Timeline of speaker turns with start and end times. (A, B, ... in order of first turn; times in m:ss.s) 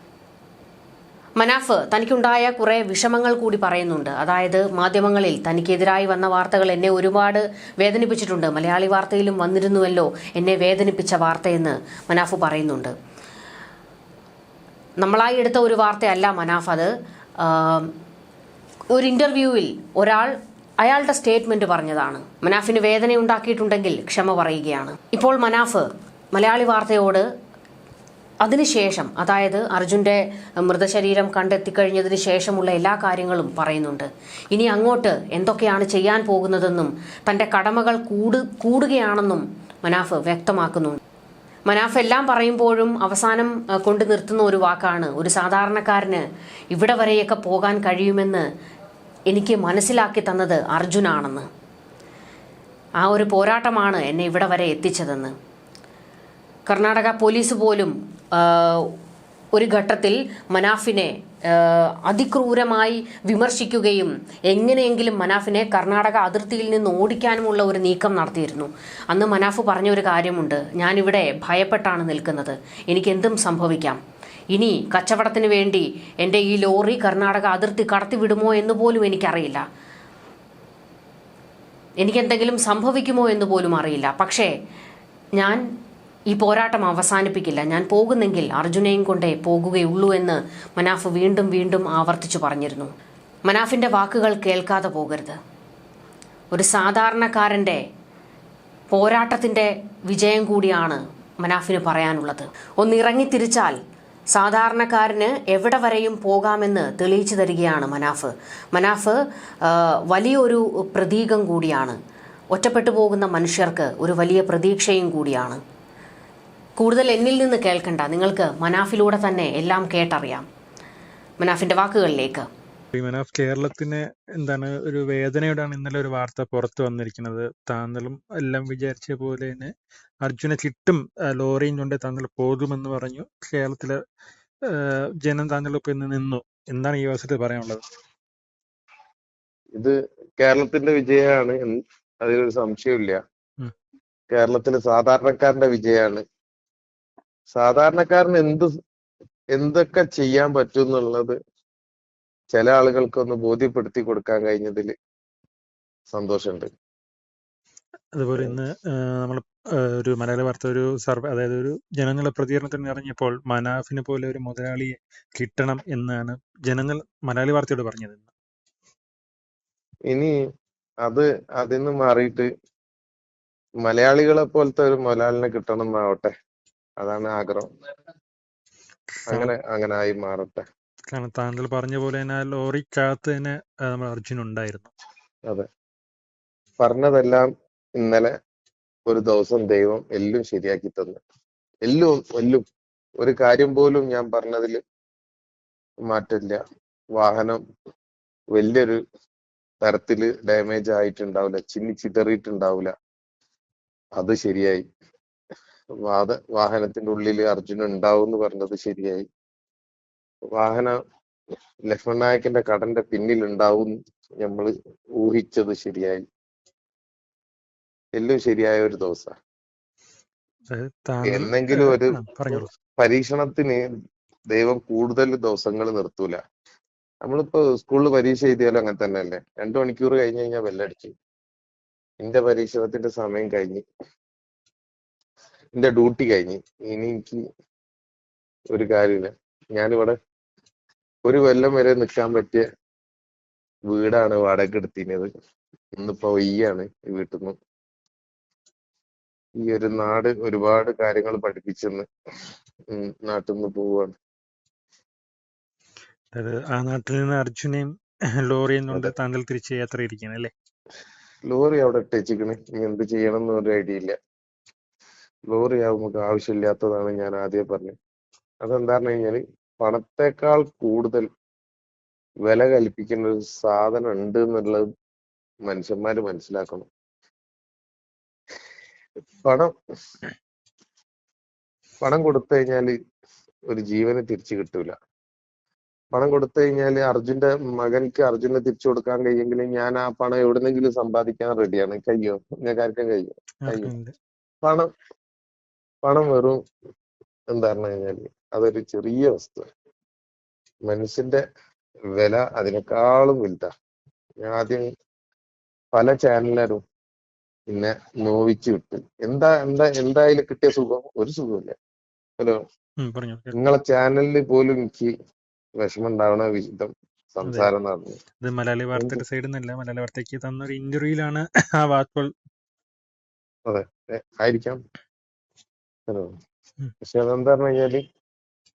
0:01.4-0:12.9 A
0:15.0-0:17.9 A
0:18.9-0:27.2 A
0:28.4-0:41.0 A
0:41.7-0:48.4 A
0:49.3-0:51.5 A
0:53.0-0:55.3 A
0:56.7-0:58.9 A
0:59.5-1:14.0 A
1:14.5-1:19.6 A
1:22.0-1:24.5 A
1:25.4-1:25.6 A
1:26.3-1:32.9 A
1:33.5-1:35.4 A
1:36.5-1:37.8 A
1:38.9-1:43.8 A
1:44.3-1:52.0 A
1:52.5-1:55.6 A
1:56.8-2:00.4 A
2:01.4-2:02.5 A
2:02.9-2:09.7 B
2:10.2-2:14.0 B
2:14.7-2:17.8 B
2:19.7-2:23.2 C
2:24.3-2:26.2 C
2:27.5-2:28.7 C
2:29.5-2:31.4 C
2:32.5-2:34.9 C
2:36.1-2:36.7 C
2:38.1-2:48.2 B
2:51.0-2:52.5 C
2:53.8-2:56.3 C
2:57.0-2:57.7 C
2:59.1-2:59.5 B
2:59.3-3:00.6 C
3:01.1-3:04.9 B
3:06.8-3:08.3 C
3:09.1-3:11.2 C
3:11.8-3:12.6 C
3:13.2-3:14.8 C
3:16.1-3:16.6 C
3:17.2-3:17.6 C
3:18.5-3:19.0 C
3:19.8-3:22.9 C
3:24.2-3:24.8 C
3:26.0-3:29.2 C
3:30.5-3:31.0 C
3:31.9-3:36.2 C
3:38.2-3:39.3 C
3:40.7-3:42.7 B
3:41.2-3:43.8 C
3:44.5-3:46.4 C
3:47.2-3:51.1 C
3:52.2-3:53.8 C
3:55.7-3:57.4 C
3:58.7-4:00.2 C
4:01.2-4:02.6 C
4:03.9-4:05.3 C
4:06.0-4:07.6 C
4:09.6-4:12.1 C
4:12.9-4:14.1 C
4:16.3-4:17.9 B
4:18.4-4:20.5 B
4:21.5-4:24.1 C
4:25.5-4:28.0 C
4:28.6-4:31.2 C
4:32.4-4:34.8 C
4:35.6-4:36.9 C
4:39.4-4:39.7 C
4:42.0-4:42.9 C
4:43.7-4:44.9 C
4:46.1-4:53.9 C
4:53.6-4:54.1 B
4:54.6-4:54.9 C
4:56.0-4:56.6 C
4:57.5-4:59.7 C
5:00.9-5:01.4 C
5:02.2-5:03.7 C
5:04.4-5:04.8 C
5:05.9-5:06.8 C
5:07.7-5:11.7 C
5:13.0-5:13.5 B
5:13.5-5:15.1 C
5:15.8-5:18.2 C
5:17.4-5:17.7 B
5:18.4-5:22.3 B
5:19.0-5:19.2 C
5:23.7-5:24.8 C
5:27.0-5:28.0 C